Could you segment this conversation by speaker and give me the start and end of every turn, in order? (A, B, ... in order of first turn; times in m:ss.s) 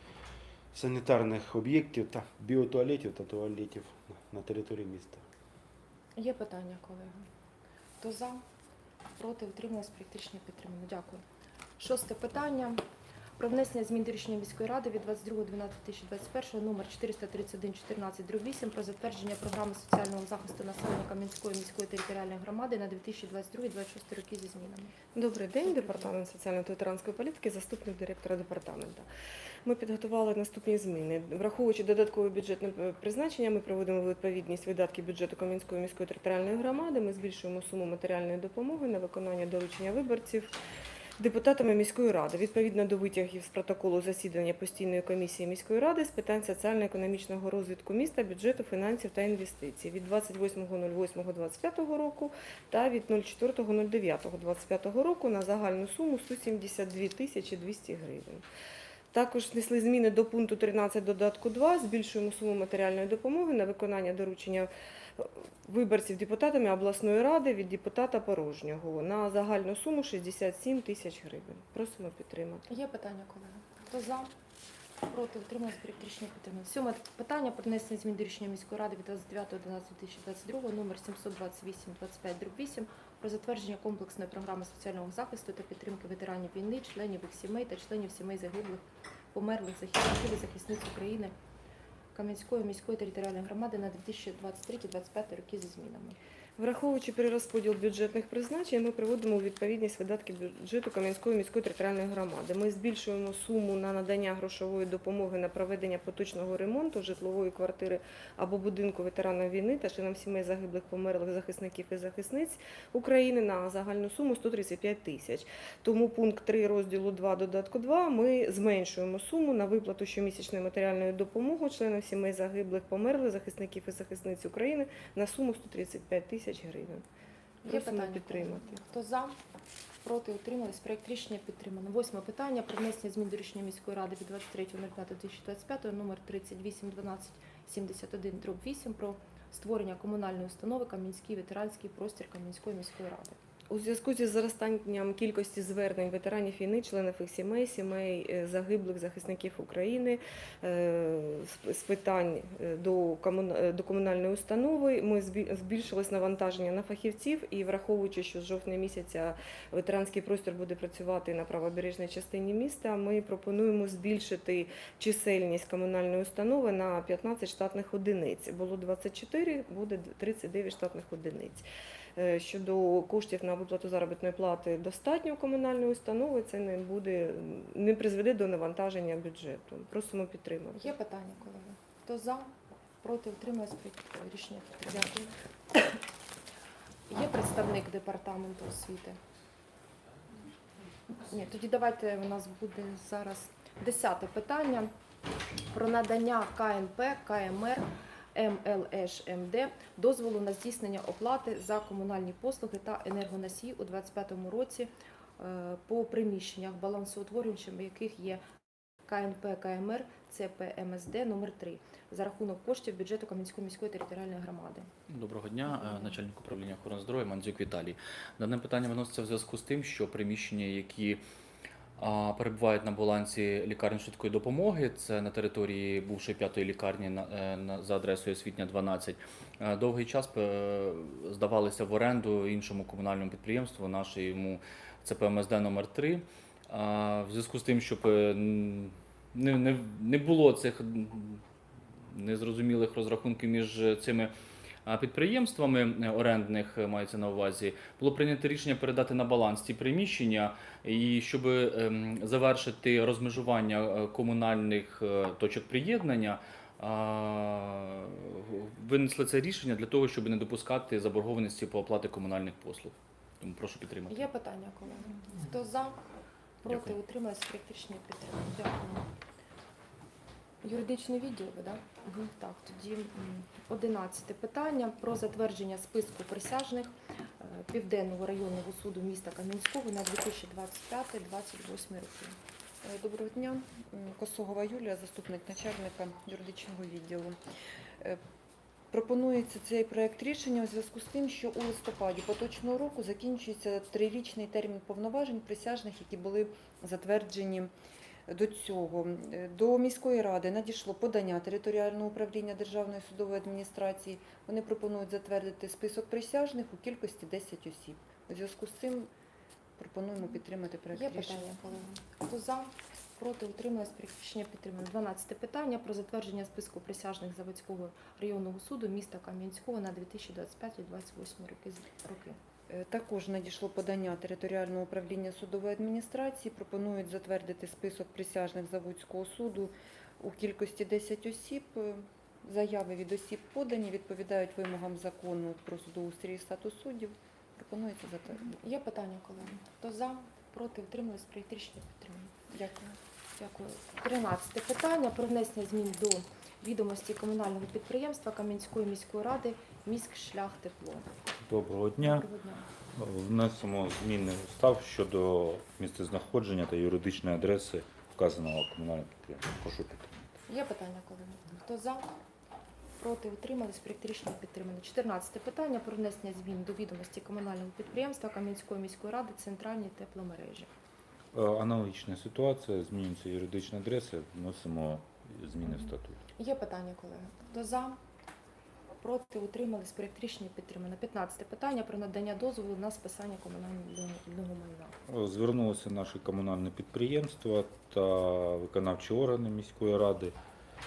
0:00.7-0:05.2 A
0:06.2-0:07.2 B
0:08.0-0:08.4 B
0:09.2-0:11.2 B
0:11.8-0:12.8 B
0:13.4-0:24.9 B
0:25.2-0:29.1 C
0:25.6-0:26.0 B
0:29.6-0:40.5 C
0:41.2-0:58.4 C
0:59.1-1:12.6 C
1:12.7-1:14.3 B
1:15.1-1:31.3 B
1:32.2-1:36.2 B
1:36.6-2:07.0 C
2:07.7-2:09.4 B
2:07.7-2:08.5 C
2:10.0-2:23.4 B
2:23.7-2:51.6 C
2:52.2-3:00.8 C
3:00.8-3:05.3 B
3:07.1-3:09.2 B
3:11.2-3:14.9 B
3:15.7-3:28.4 B
3:29.1-3:34.9 B
3:35.1-3:41.2 D
3:35.7-3:36.1 B
3:42.0-4:01.4 D
4:02.1-4:04.3 D
4:04.9-4:24.3 D
4:24.1-4:26.0 B
4:26.6-4:29.1 B
4:26.7-4:26.9 D
4:30.6-4:42.4 B
4:42.8-4:47.4 E
4:48.9-4:57.7 E
4:58.3-5:09.1 E
5:09.8-5:11.8 E
5:10.9-5:22.4 B
5:22.7-5:38.6 E
5:38.5-5:42.3 B
5:42.5-5:43.0 E
5:43.4-5:51.1 B
5:51.4-5:52.3 F
5:52.0-5:52.7 B
5:53.0-6:00.3 F
6:00.5-6:02.1 B
6:03.0-6:10.7 B
6:11.3-6:16.2 F
6:15.6-6:18.0 B
6:19.0-6:24.9 B
6:25.1-6:30.4 F